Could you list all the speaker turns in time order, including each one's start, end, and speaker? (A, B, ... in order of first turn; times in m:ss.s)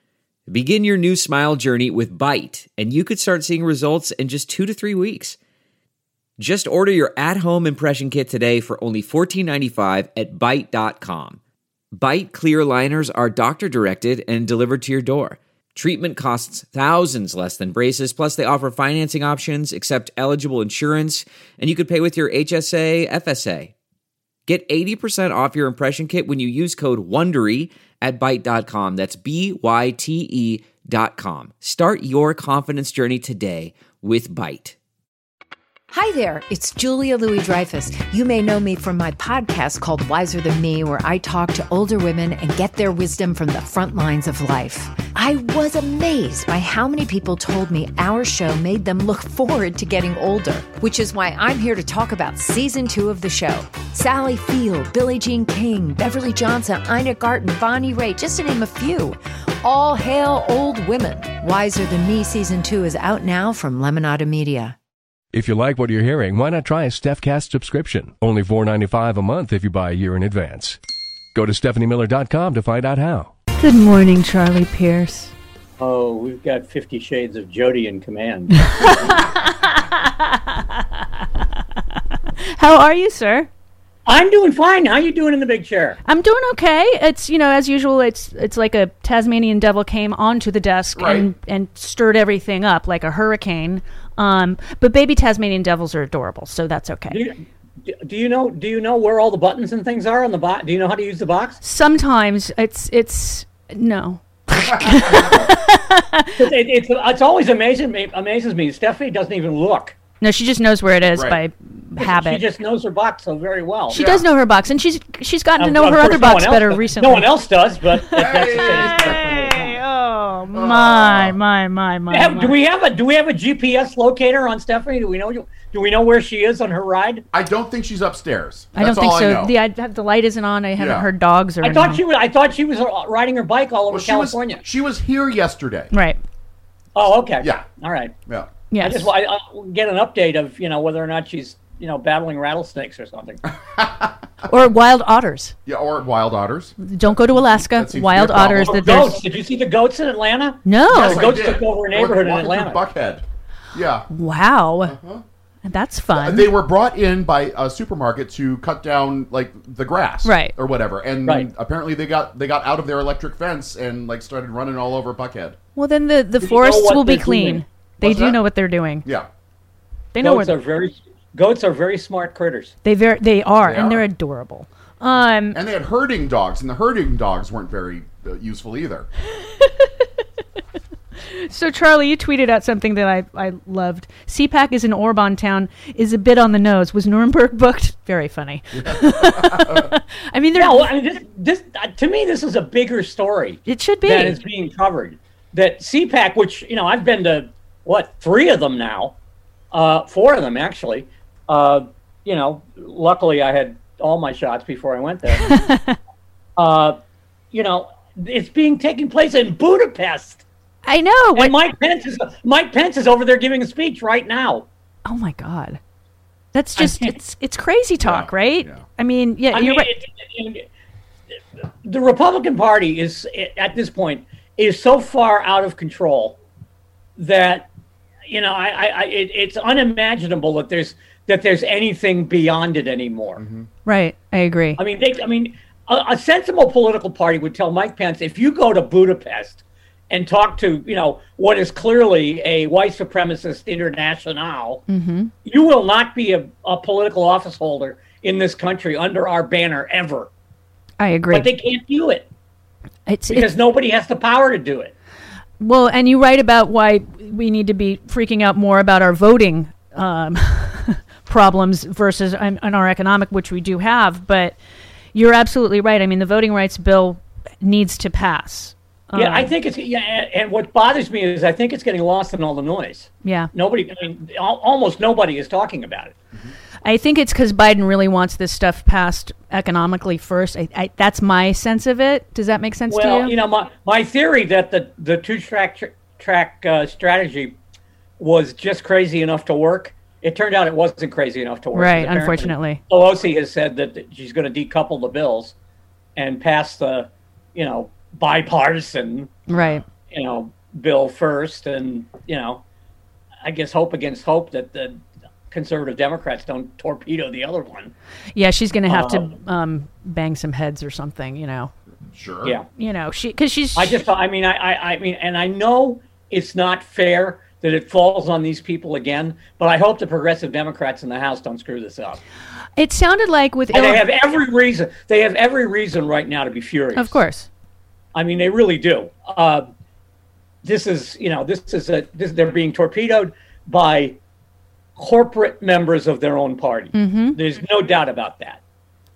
0:00.5-0:05.3 A
0:06.4-0:11.4 A
0:11.9-0:23.7 A
0:24.5-0:27.5 A
0:30.7-0:31.0 A
0:35.9-1:04.8 B
1:05.3-1:10.8 C
1:11.4-1:13.3 C
1:13.6-1:15.3 D
1:15.8-1:18.5 E
1:18.6-1:20.8 D
1:22.4-1:23.5 D
1:24.1-1:26.0 E
1:26.1-1:37.2 D
1:31.0-1:31.3 F
1:37.1-1:41.6 E
1:41.6-1:46.4 D
1:44.7-1:45.4 F
1:46.4-1:50.0 E
1:50.2-1:52.4 D
1:51.1-1:51.4 F
1:52.0-1:54.0 E
1:53.9-1:57.3 D
1:53.9-1:54.3 F
1:55.6-1:59.8 E
1:57.9-2:02.6 D
1:58.1-1:59.3 F
2:00.5-2:01.4 F
2:02.1-2:07.2 E
2:07.3-2:09.6 F
2:08.8-2:12.0 D
2:10.8-2:11.1 F
2:11.6-2:14.6 E
2:13.9-2:15.9 F
2:15.9-2:16.2 D
2:17.0-2:18.1 E
2:17.4-2:17.7 F
2:18.7-2:19.1 D
2:18.8-2:23.4 E
2:23.7-2:24.2 F
2:24.5-2:25.6 D
2:25.7-2:29.0 F
2:26.8-2:29.2 D
2:28.6-2:32.8 E
2:30.6-2:31.3 D
2:30.9-2:34.1 F
2:34.1-2:35.0 D
2:34.8-2:35.2 F
2:35.6-2:36.5 D
2:36.2-2:45.6 F
2:40.2-2:40.6 D
2:45.8-2:49.1 D
2:46.4-2:47.6 E
2:48.0-2:48.4 F
2:49.0-2:49.3 F
2:50.1-2:50.6 D
2:50.2-2:52.7 E
2:52.8-2:55.6 D
2:53.6-2:54.0 F
2:55.5-2:59.1 F
2:59.4-2:59.9 D
3:01.3-3:10.9 D
3:08.7-3:09.9 F
3:10.6-3:19.2 E
3:13.7-3:14.4 D
3:19.7-3:25.5 E
3:25.4-3:26.0 D
3:26.6-3:27.0 E
3:27.5-3:30.4 E
3:30.8-3:31.5 D
3:31.4-3:34.7 E
3:35.1-3:35.8 D
3:36.5-3:39.9 D
3:36.8-3:37.2 E
3:38.0-3:38.8 F
3:39.5-3:40.6 E
3:41.8-3:46.4 E
3:47.2-3:47.7 E
3:48.3-3:53.4 E
3:53.4-3:53.7 F
3:53.8-3:54.8 D
3:54.8-4:04.8 E
4:04.9-4:05.3 D
4:05.4-4:10.3 E
4:11.0-4:11.5 D
4:11.3-4:12.3 E
4:13.1-4:13.5 D
4:13.3-4:14.9 E
4:15.6-4:24.6 D
4:25.1-4:29.5 D
4:29.2-4:36.2 E
4:33.2-4:33.5 D
4:36.8-4:43.4 D
4:42.9-4:47.6 E
4:48.2-4:55.5 E
4:51.7-4:52.8 D
4:56.2-4:59.4 E
4:59.5-4:59.8 D
4:59.5-4:59.8 F
5:00.1-5:02.6 E
5:03.4-5:07.9 E
5:08.3-5:11.7 D
5:08.9-5:09.4 E
5:12.1-5:12.6 F
5:12.8-5:14.0 D
5:13.8-5:22.2 E
5:22.8-5:24.0 D
5:23.7-5:27.2 E
5:27.0-5:27.5 D
5:28.1-5:29.7 E
5:30.6-5:34.2 E
5:35.0-5:38.6 E
5:36.9-5:37.4 D